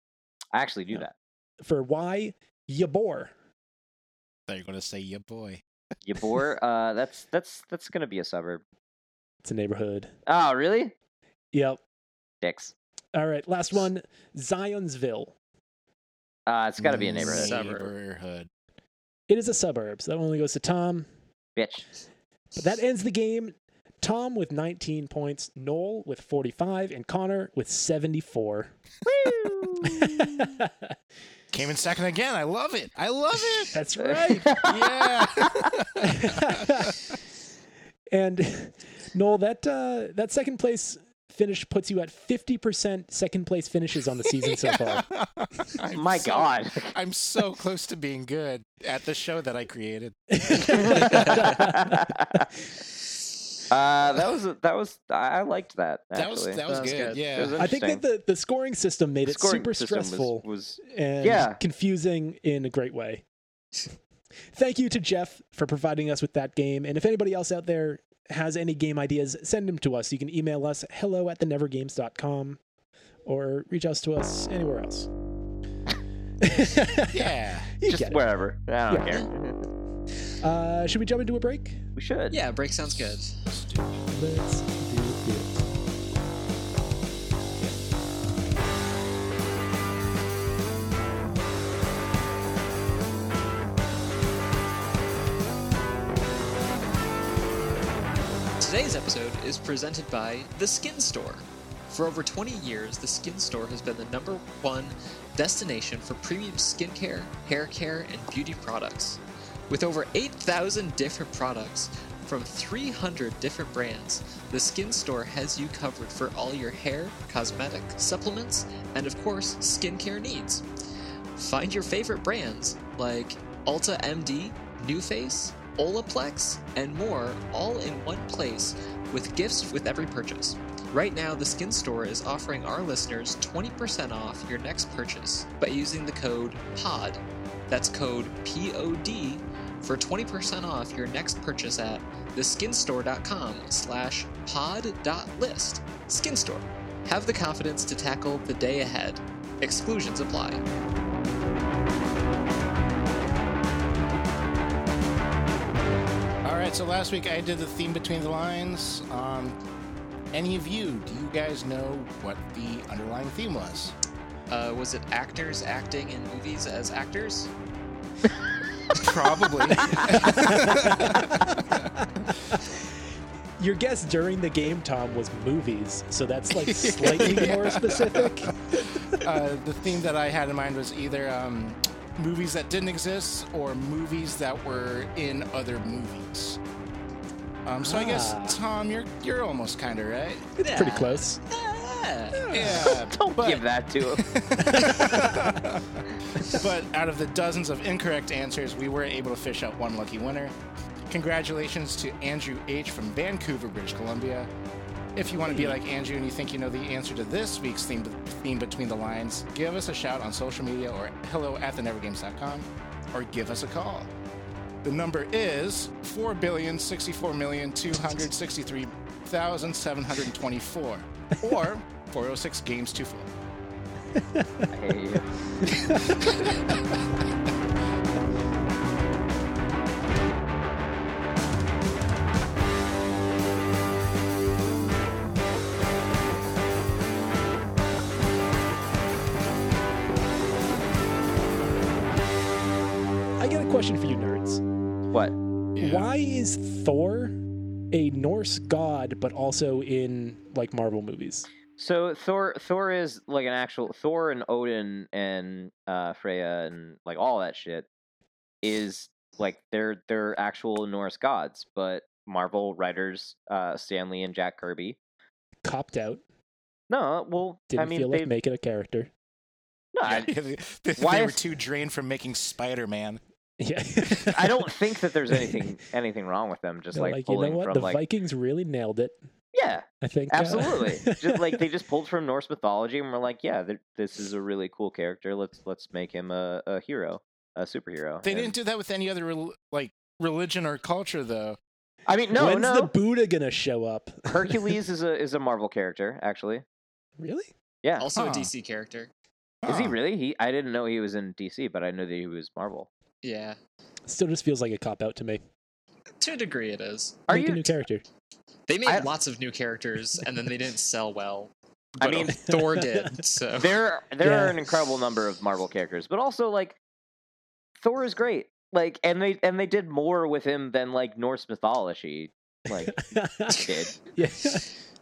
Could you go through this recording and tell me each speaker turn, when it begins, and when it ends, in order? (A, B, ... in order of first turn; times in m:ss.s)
0:00.5-0:01.1 A
0:01.6-0:03.3 B
0:04.5-0:05.6 C
0:06.0-0:08.6 A
0:09.4-0:10.1 B
0:10.2-0:10.9 A
0:11.5-0:11.8 B
0:12.4-0:12.7 A
0:13.1-0:15.3 B
0:16.4-0:17.5 A
0:16.8-0:18.5 C
0:17.2-0:17.9 D
0:19.3-0:21.1 B
0:21.6-0:21.8 A
0:22.6-0:28.7 B
0:29.0-0:30.5 A
0:29.8-0:30.9 B
0:31.5-0:33.8 C
0:33.7-0:34.6 B
0:34.0-0:35.7 A
0:34.5-0:37.0 C
0:36.0-0:37.0 B
0:38.1-0:45.1 B
0:44.4-0:51.4 C
0:45.9-0:46.9 A
0:50.3-0:52.1 B
0:50.6-0:52.5 A
0:51.0-0:51.6 D
0:53.7-0:56.6 A
0:56.1-0:57.6 C
0:56.7-0:57.2 D
0:57.2-0:58.0 A
0:57.6-1:03.2 B
0:59.2-1:01.6 A
1:04.5-1:12.6 B
1:13.2-1:15.1 B
1:16.4-1:18.2 B
1:17.1-1:17.7 C
1:17.9-1:19.6 A
1:18.9-1:19.2 B
1:20.3-1:21.8 B
1:22.0-1:22.4 A
1:22.3-1:23.4 D
1:22.9-1:24.0 C
1:24.1-1:25.6 B
1:38.6-2:00.6 D
2:01.4-2:30.6 D
2:36.4-2:39.6 C
2:40.3-2:43.9 C
2:44.5-2:47.5 D
2:48.9-2:52.3 C
2:50.2-2:51.3 B
2:53.6-2:58.5 B
2:56.5-3:06.6 C
3:07.6-3:10.4 C
3:07.8-3:08.6 B
3:10.6-3:11.4 B
3:10.6-3:12.5 D
3:12.4-3:13.0 B
3:12.5-3:20.5 C
3:12.8-3:14.3 A
3:15.1-3:15.6 B
3:21.1-3:24.5 C
3:25.2-3:34.1 C
3:25.5-3:25.8 B
3:34.8-3:43.3 C
3:44.2-3:44.6 B
3:44.7-3:45.3 A
3:45.6-3:46.2 B
3:45.7-3:47.0 C
4:03.4-4:04.6 B
4:05.7-4:06.1 C
4:05.8-4:07.4 B
4:07.9-4:11.5 B
4:11.8-4:17.9 A
4:18.6-4:25.0 A
4:25.6-4:26.2 B
4:26.9-4:28.3 A
4:27.7-4:29.1 B
4:29.9-4:30.3 A
4:30.0-4:33.2 C
4:31.0-4:31.4 A
4:33.6-4:34.7 B
4:34.3-4:38.0 A
4:35.3-4:35.7 B
4:36.9-4:39.2 B
4:39.5-4:48.5 A
4:40.0-4:41.6 B
4:48.2-4:51.6 C
4:52.0-4:52.9 A
4:52.3-4:54.8 B
4:54.3-4:56.6 A
4:57.2-4:57.5 B
4:58.0-4:59.1 D
4:58.1-4:58.5 C
4:59.6-5:00.0 C
4:59.6-5:02.9 A
5:03.2-5:03.6 D
5:04.1-5:05.4 B
5:06.2-5:07.2 D
5:07.3-5:07.7 A
5:07.3-5:08.0 B
5:08.7-5:13.8 D
5:12.0-5:12.4 A
5:12.3-5:13.2 B
5:13.6-5:16.8 A
5:14.2-5:14.6 B
5:17.8-5:23.0 A
5:22.8-5:24.7 B
5:23.5-5:23.9 A